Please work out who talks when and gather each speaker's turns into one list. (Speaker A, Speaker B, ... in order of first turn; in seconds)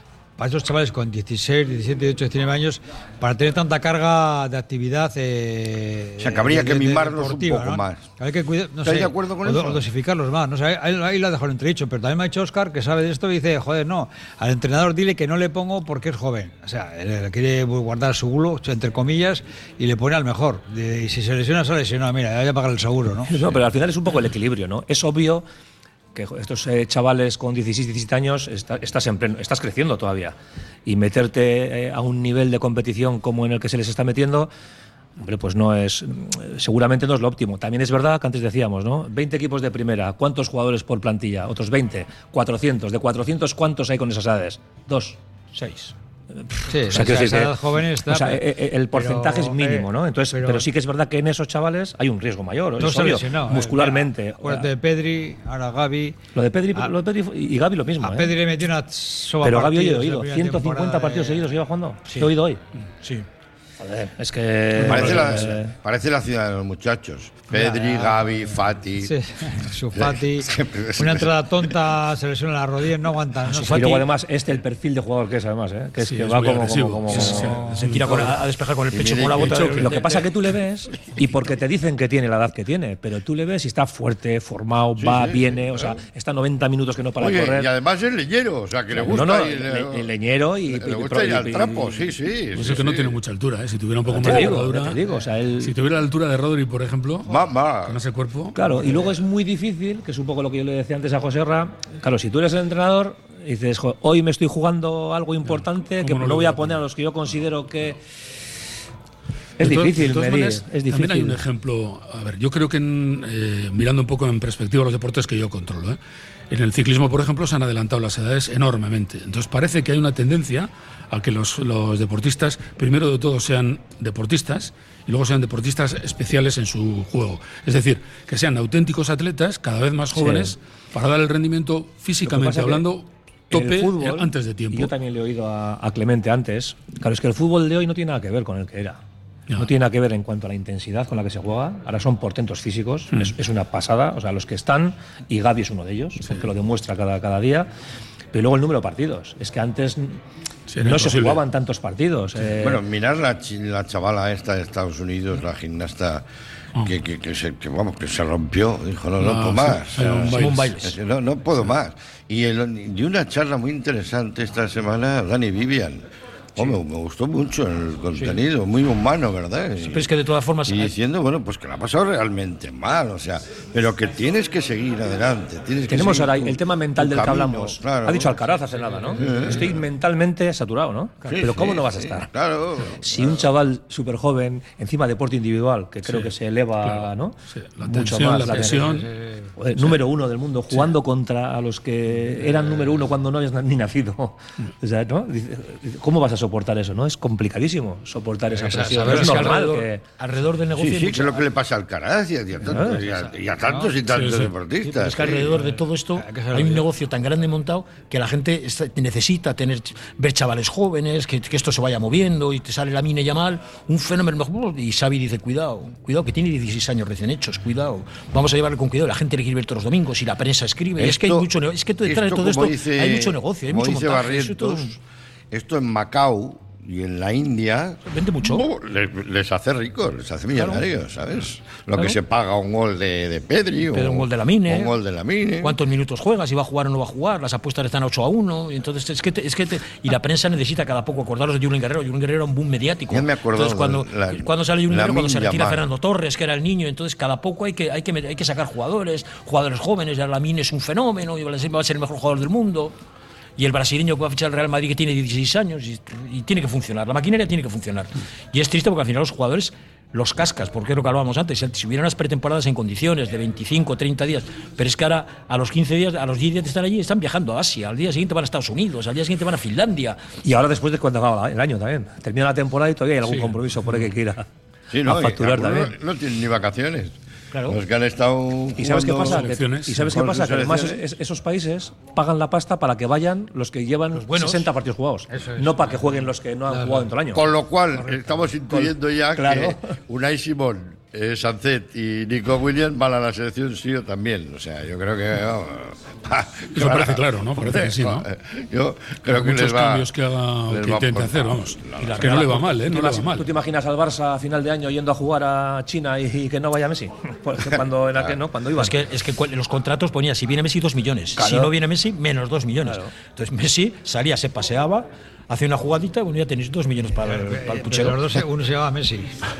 Speaker A: 0.4-23.4, 46.7-50.7, 52.8-56.2, 58.0-61.5, 67.5-74.1, 188.5-189.5, 198.5-199.6, 205.5-206.9, 285.3-286.0, 286.7-287.1, 317.1-319.4
Speaker B: 6.2-8.1, 8.8-9.8, 64.8-69.1, 69.9-71.7, 78.9-79.8, 85.0-85.9, 87.2-90.1, 90.7-93.2, 97.3-98.0, 152.6-156.2, 156.8-170.1, 170.7-178.4, 179.2-179.8, 181.2-183.4, 200.8-205.5, 221.0-221.5, 222.0-224.9, 225.5-235.8, 243.1-245.8, 274.9-277.1, 277.7-279.4, 280.1-281.0, 287.3-300.1, 300.7-302.3
Speaker C: 23.2-25.4, 26.1-34.5, 35.2-45.2, 46.5-54.7, 56.3-58.3, 59.4-62.6, 63.8-65.7, 73.6-77.7, 79.5-87.7, 89.0-92.0, 94.1-95.7, 98.5-108.0, 109.6-111.4, 130.1-130.5, 132.2-132.8, 133.5-139.0, 139.6-147.7, 148.3-150.2, 150.8-152.8, 175.9-182.3, 183.0-189.0, 189.6-200.0, 202.6-203.0, 270.4-274.4, 275.0-275.9, 278.8-287.4, 288.7-289.9, 302.9-309.0, 311.4-311.7, 312.8-313.1
Speaker D: 45.5-45.9, 63.0-63.3, 73.5-73.8, 77.2-80.3, 160.2-160.9, 169.9-170.9, 199.0-201.4, 204.8-225.0, 228.1-228.7, 230.6-230.8, 233.9-234.9, 235.6-252.9, 253.6-270.2, 277.5-277.8, 284.1-284.6, 302.0-303.1, 308.8-318.4
Speaker E: 64.8-65.4, 76.0-78.4, 92.5-95.0, 95.6-98.6, 105.5-106.8, 109.6-116.0, 116.5-134.9, 150.7-151.4, 159.2-160.8, 186.1-186.3, 186.8-189.1, 204.1-204.5, 279.2-280.2, 296.7-298.3, 299.3-303.5